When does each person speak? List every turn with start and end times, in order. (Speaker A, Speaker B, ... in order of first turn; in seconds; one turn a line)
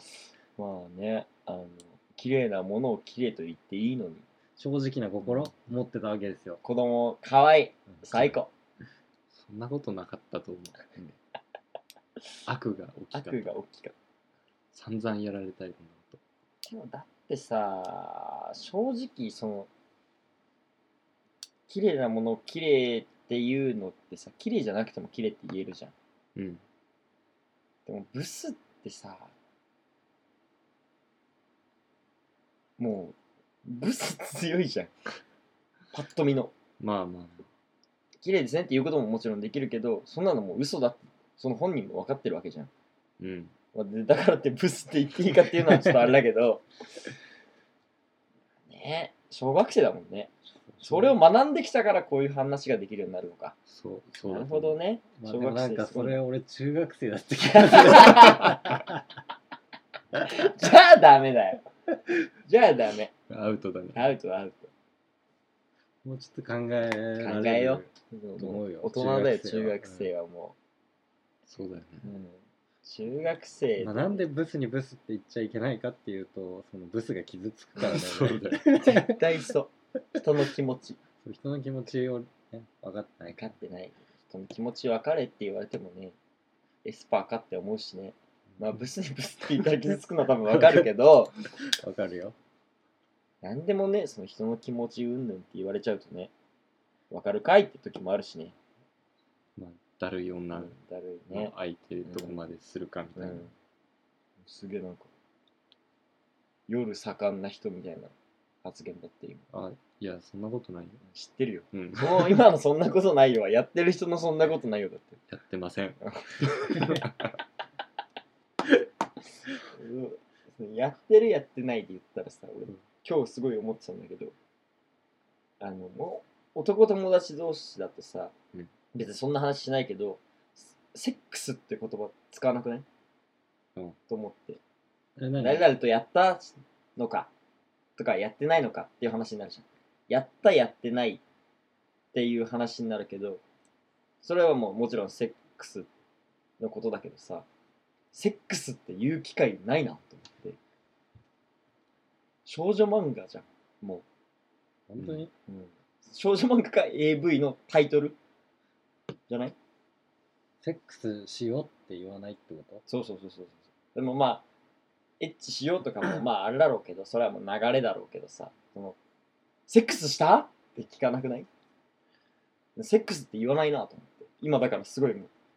Speaker A: 0.6-4.2
Speaker B: 4.6-6.6
Speaker A: 5.2-5.5
Speaker A: 6.6-8.5
Speaker C: 9.3-10.9
Speaker C: 12.5-13.6
Speaker A: 13.1-14.0
Speaker C: 14.7-16.2
Speaker A: 16.6-19.7
Speaker A: 21.7-25.9
Speaker C: 26.4-26.6
Speaker A: 27.9-29.3
Speaker A: 32.8-34.9
Speaker A: 35.9-36.5
Speaker C: 36.8-37.5
Speaker A: 38.2-42.7
Speaker C: 43.2-43.5
Speaker A: 43.7-47.1
Speaker A: 48.7-50.3
Speaker B: 50.7-51.1
Speaker A: 50.8-53.6
Speaker C: 53.7-54.8
Speaker A: 54.3-56.2
Speaker B: 55.2-59.0
Speaker A: 57.5-58.6
Speaker A: 60.1-61.6
Speaker A: 62.5-63.1
Speaker C: 63.3-64.1
Speaker A: 64.0-64.7
Speaker B: 66.0-67.9
Speaker A: 67.2-70.6
Speaker B: 68.4-69.9
Speaker C: 71.5-72.1
Speaker A: 72.0-74.2
Speaker B: 73.8-79.2
Speaker C: 77.8-78.8
Speaker A: 78.7-81.0
Speaker B: 81.2-83.5
Speaker A: 83.3-86.2
Speaker A: 86.8-91.3
Speaker B: 90.5-90.8
Speaker B: 91.6-92.3
Speaker A: 93.4-96.3
Speaker A: 97.1-98.6
Speaker C: 99.6-100.8
Speaker A: 100.5-101.5
Speaker C: 101.3-103.5
Speaker A: 102.1-102.3
Speaker A: 103.2-103.5
Speaker A: 104.4-105.1
Speaker A: 106.7-109.5
Speaker C: 109.5-111.0
Speaker A: 111.1-115.2
Speaker C: 111.7-112.4
Speaker C: 115.3-117.4
Speaker A: 116.0-117.0
Speaker A: 119.6-124.3
Speaker A: 125.6-128.3
Speaker A: 128.9-132.9
Speaker A: 134.1-134.6
Speaker B: 135.2-135.7
Speaker A: 135.4-137.3
Speaker A: 138.0-141.2
Speaker A: 142.1-143.4
Speaker A: 144.2-145.9
Speaker A: 146.6-147.5
Speaker A: 148.1-150.6
Speaker A: 152.5-154.1
Speaker B: 154.9-155.3
Speaker A: 155.5-158.2
Speaker A: 159.3-159.6
Speaker B: 160.6-162.8
Speaker A: 162.9-164.4
Speaker A: 165.2-169.0
Speaker A: 169.7-171.5
Speaker A: 172.8-175.3